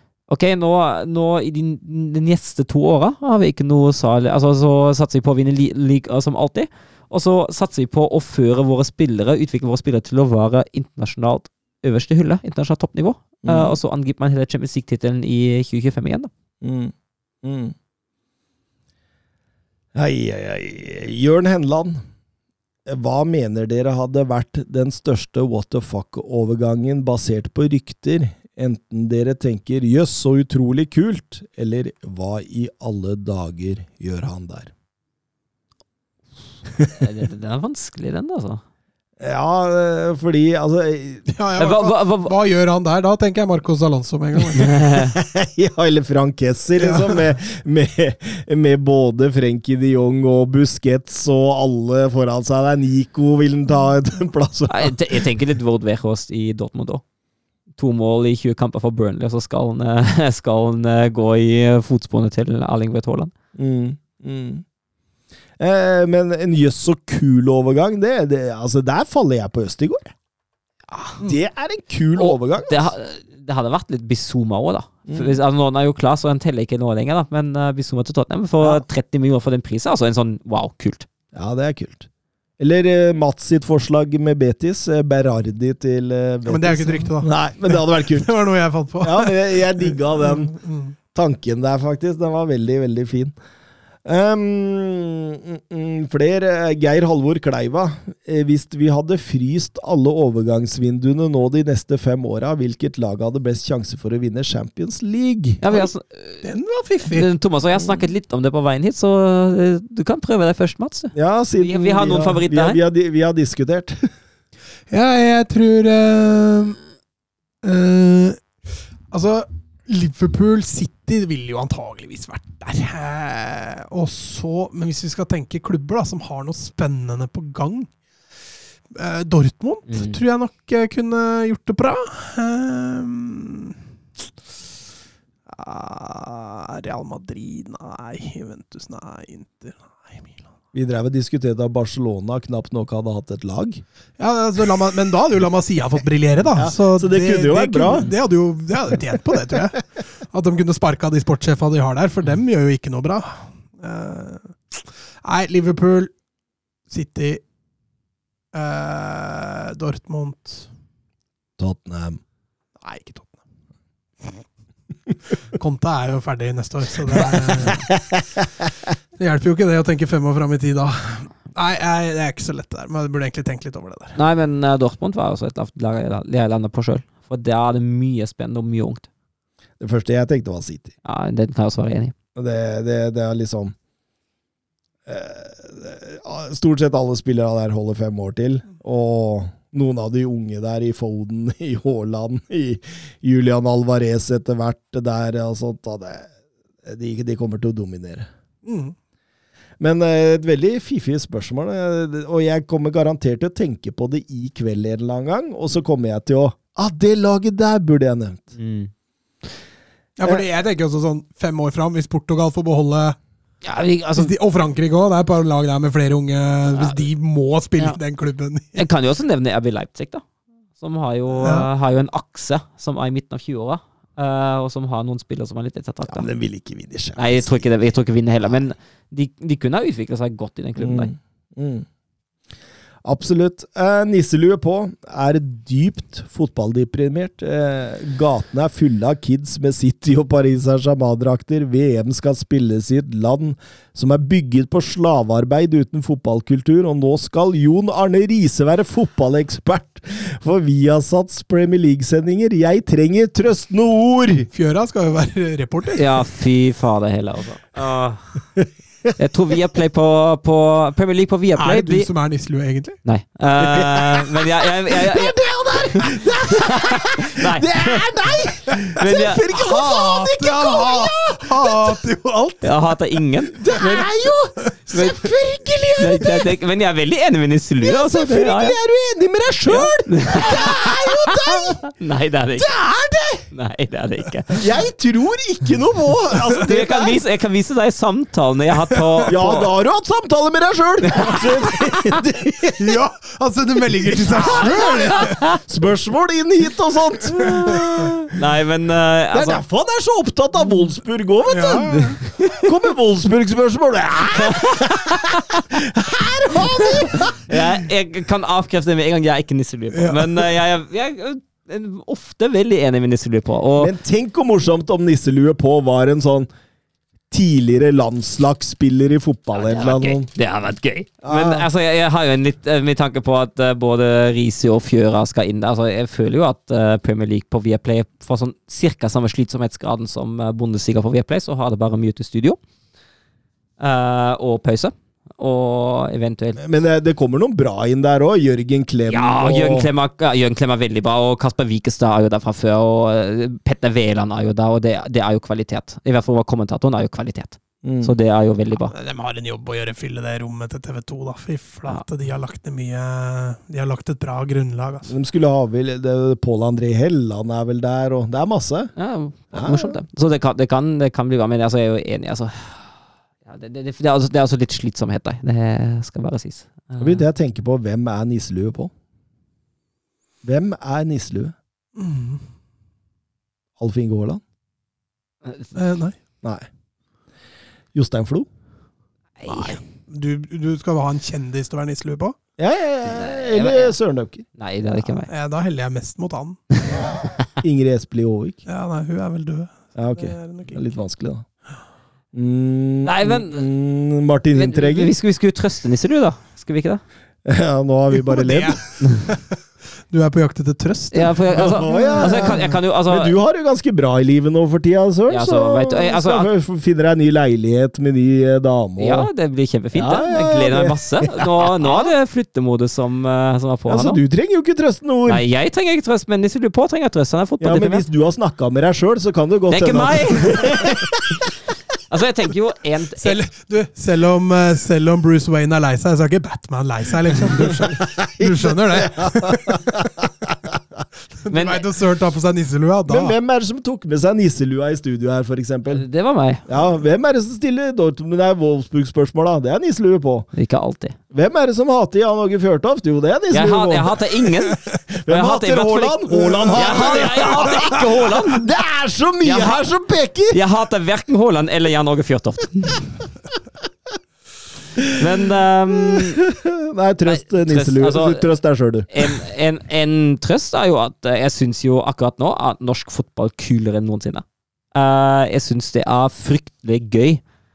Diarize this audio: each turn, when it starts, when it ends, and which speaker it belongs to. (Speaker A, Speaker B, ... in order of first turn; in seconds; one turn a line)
Speaker A: 0.3-16.3
Speaker B: 13.4-13.8
Speaker B: 16.6-17.8
Speaker B: 19.9-22.0
Speaker B: 22.9-34.7
Speaker A: 36.9-38.6
Speaker B: 39.2-41.2
Speaker C: 41.3-44.7
Speaker A: 41.6-42.3
Speaker A: 44.6-45.1
Speaker B: 44.6-55.2
Speaker C: 46.8-47.2
Speaker A: 54.7-57.0
Speaker A: 57.8-63.3
Speaker B: 63.5-64.6
Speaker B: 65.6-70.1
Speaker A: 70.9-71.2
Speaker B: 71.2-72.9
Speaker A: 72.2-81.1
Speaker B: 75.1-75.4
Speaker B: 81.3-82.1
Speaker B: 82.6-88.3
Speaker C: 86.5-91.0
Speaker B: 89.0-90.5
Speaker B: 91.1-93.3
Speaker B: 94.0-105.6
Speaker A: 105.6-106.4
Speaker C: 106.4-107.3
Speaker A: 107.1-112.8
Speaker B: 107.8-108.0
Speaker B: 111.1-114.1
Speaker C: 114.9-116.8
Speaker C: 117.6-118.4
Speaker C: 119.1-127.9
Speaker C: 128.9-133.8
Speaker A: 129.9-130.2
Speaker C: 135.5-140.4
Speaker B: 140.7-143.8
Speaker C: 144.2-156.1
Speaker B: 146.5-148.1
Speaker C: 156.9-157.4
Speaker C: 158.5-160.7
Speaker B: 161.6-162.2
Speaker C: 162.8-163.4
Speaker C: 165.5-167.8
Speaker B: 167.7-168.2
Speaker C: 169.2-174.2
Speaker A: 174.2-179.1
Speaker B: 179.8-180.9
Speaker A: 181.0-182.1
Speaker B: 182.3-183.7
Speaker B: 185.1-196.3
Speaker B: 196.8-198.3
Speaker C: 198.7-198.9
Speaker B: 199.8-208.5
Speaker A: 208.6-208.9
Speaker C: 210.2-213.2
Speaker A: 213.6-214.3
Speaker C: 214.2-218.8
Speaker A: 216.7-217.0
Speaker A: 218.8-220.2
Speaker A: 220.8-226.3
Speaker C: 221.4-221.7
Speaker B: 226.1-227.7
Speaker A: 227.2-231.1
Speaker B: 230.8-231.9
Speaker B: 233.0-254.5
Speaker C: 254.5-256.1
Speaker A: 256.0-258.4
Speaker B: 258.6-259.1
Speaker A: 259.2-262.1
Speaker C: 261.6-263.0
Speaker A: 263.1-268.4
Speaker B: 263.6-272.0
Speaker A: 268.9-269.4
Speaker C: 269.5-272.7
Speaker A: 272.6-274.0
Speaker B: 273.6-276.5
Speaker C: 273.7-274.0
Speaker A: 274.9-275.2
Speaker A: 276.0-278.8
Speaker B: 277.8-281.8
Speaker A: 279.7-282.7
Speaker B: 282.6-283.5
Speaker A: 283.5-284.6
Speaker B: 284.5-287.2
Speaker A: 286.6-289.7
Speaker B: 289.3-293.0
Speaker A: 291.0-292.2
Speaker C: 292.8-295.4
Speaker B: 294.3-298.3
Speaker A: 294.6-295.6
Speaker A: 298.3-299.6
Speaker B: 299.3-307.5
Speaker C: 301.5-302.2
Speaker A: 302.4-302.7
Speaker A: 304.3-305.6
Speaker A: 306.8-313.9
Speaker C: 309.9-310.5
Speaker B: 313.8-316.5
Speaker B: 317.3-320.3
Speaker A: 319.5-332.6
Speaker B: 321.2-321.7
Speaker A: 333.8-336.6
Speaker B: 336.6-339.9
Speaker A: 339.1-348.9
Speaker B: 347.8-348.1
Speaker C: 348.9-355.1
Speaker B: 355.1-358.9
Speaker A: 359.0-367.2
Speaker B: 359.5-360.0
Speaker B: 367.0-368.9
Speaker B: 370.4-371.6
Speaker C: 372.0-372.4
Speaker B: 373.8-374.4
Speaker A: 375.4-375.7
Speaker C: 375.7-376.2
Speaker B: 377.9-378.5
Speaker A: 379.4-379.8
Speaker C: 379.5-382.4
Speaker B: 382.6-384.4
Speaker A: 383.1-384.0
Speaker A: 384.6-385.3
Speaker C: 385.3-386.8
Speaker B: 387.6-388.6
Speaker C: 388.7-390.9
Speaker B: 389.9-391.5
Speaker B: 392.3-395.1
Speaker A: 393.0-393.7
Speaker A: 394.5-397.0
Speaker B: 397.4-398.8
Speaker C: 398.1-399.5
Speaker C: 400.1-402.8
Speaker A: 401.1-403.3
Speaker B: 401.6-409.3
Speaker A: 405.3-406.5
Speaker A: 409.0-414.2
Speaker B: 409.9-412.1
Speaker B: 413.9-415.4
Speaker A: 415.3-418.1
Speaker B: 417.6-421.4
Speaker A: 419.7-421.4
Speaker A: 422.1-423.4
Speaker C: 423.2-429.9
Speaker B: 428.4-430.8
Speaker C: 431.4-433.4
Speaker A: 431.5-431.8
Speaker B: 433.1-436.0
Speaker A: 435.9-436.7
Speaker B: 436.7-440.5
Speaker A: 440.5-441.2
Speaker B: 441.3-444.2
Speaker A: 443.5-448.7
Speaker B: 445.1-450.6
Speaker C: 446.5-447.6
Speaker A: 449.4-449.8
Speaker A: 450.5-453.2
Speaker A: 455.1-456.4
Speaker B: 455.9-459.4
Speaker A: 457.3-458.5
Speaker A: 459.1-467.4